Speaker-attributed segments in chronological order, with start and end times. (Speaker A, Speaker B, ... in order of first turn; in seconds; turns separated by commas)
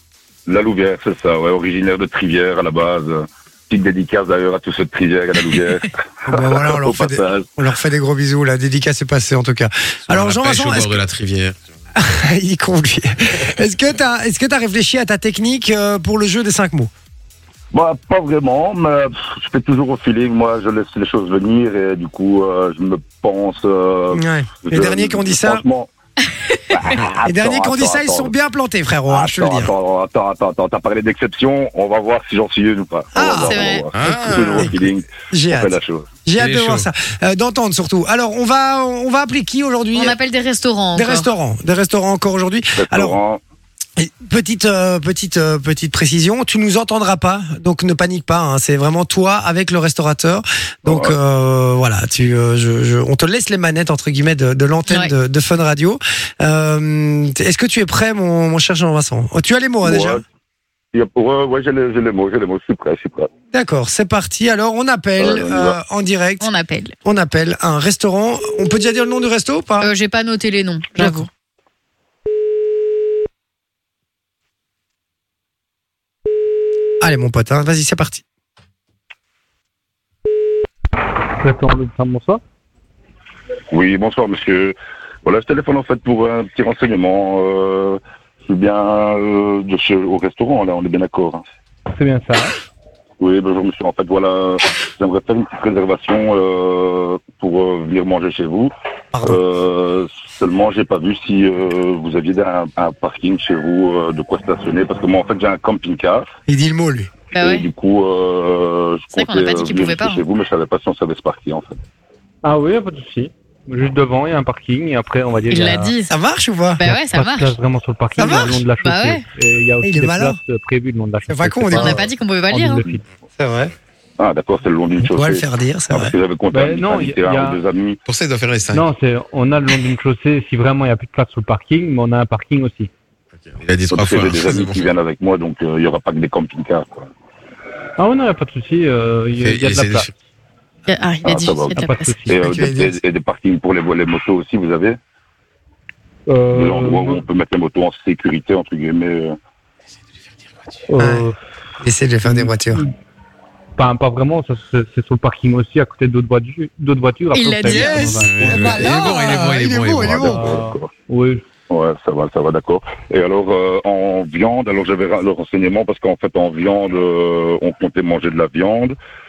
Speaker A: 0.5-7.5, Speaker B: 6.2-11.0, Speaker C: 10.1-11.6, Speaker B: 11.9-16.9, Speaker A: 17.7-25.9, Speaker B: 24.1-25.6, Speaker A: 26.7-28.3, Speaker B: 27.2-29.7, Speaker A: 29.1-36.1, Speaker B: 33.1-40.1, Speaker D: 33.5-33.8, Speaker C: 33.9-34.7, Speaker C: 36.4-36.9, Speaker D: 39.9-41.3, Speaker B: 40.9-43.1, Speaker A: 42.8-43.4, Speaker B: 44.0-60.2, Speaker A: 50.9-51.1, Speaker D: 54.9-55.1, Speaker A: 59.8-60.2, Speaker A: 60.9-63.3, Speaker B: 63.5-66.5, Speaker A: 65.2-65.8, Speaker D: 66.4-66.9, Speaker B: 67.0-69.9, Speaker D: 69.8-71.3, Speaker B: 71.0-71.3, Speaker B: 77.0-78.2, Speaker E: 81.3-82.4, Speaker A: 83.7-91.4, Speaker E: 91.9-92.6, Speaker A: 93.2-98.7, Speaker B: 99.1-99.4, Speaker A: 99.2-106.2, Speaker B: 106.5-107.1, Speaker D: 107.3-107.7, Speaker A: 107.3-111.8, Speaker D: 109.1-110.2, Speaker E: 112.4-116.0, Speaker D: 115.5-116.1, Speaker B: 116.1-116.8, Speaker D: 116.8-117.5, Speaker E: 116.8-123.0, Speaker B: 118.2-118.6, Speaker D: 118.3-119.2, Speaker B: 119.8-120.4, Speaker B: 121.3-122.0, Speaker D: 121.7-122.8, Speaker B: 123.4-123.7, Speaker A: 124.2-128.0, Speaker B: 125.0-126.1, Speaker E: 126.5-127.6, Speaker C: 128.1-128.8, Speaker E: 128.7-132.9, Speaker C: 133.5-134.9, Speaker A: 133.9-137.1, Speaker E: 138.0-140.1, Speaker C: 139.4-140.1, Speaker D: 140.9-142.1, Speaker A: 141.2-141.8, Speaker E: 141.7-142.4, Speaker A: 142.3-145.0, Speaker B: 142.3-143.0, Speaker E: 146.3-147.2, Speaker A: 146.5-149.4, Speaker E: 150.9-151.4, Speaker B: 151.0-151.3, Speaker B: 151.8-152.8, Speaker E: 152.2-152.9, Speaker E: 153.8-158.9, Speaker D: 157.3-158.1, Speaker B: 157.7-160.4, Speaker C: 158.2-160.3, Speaker A: 160.0-160.9, Speaker E: 160.1-161.4, Speaker A: 161.7-169.0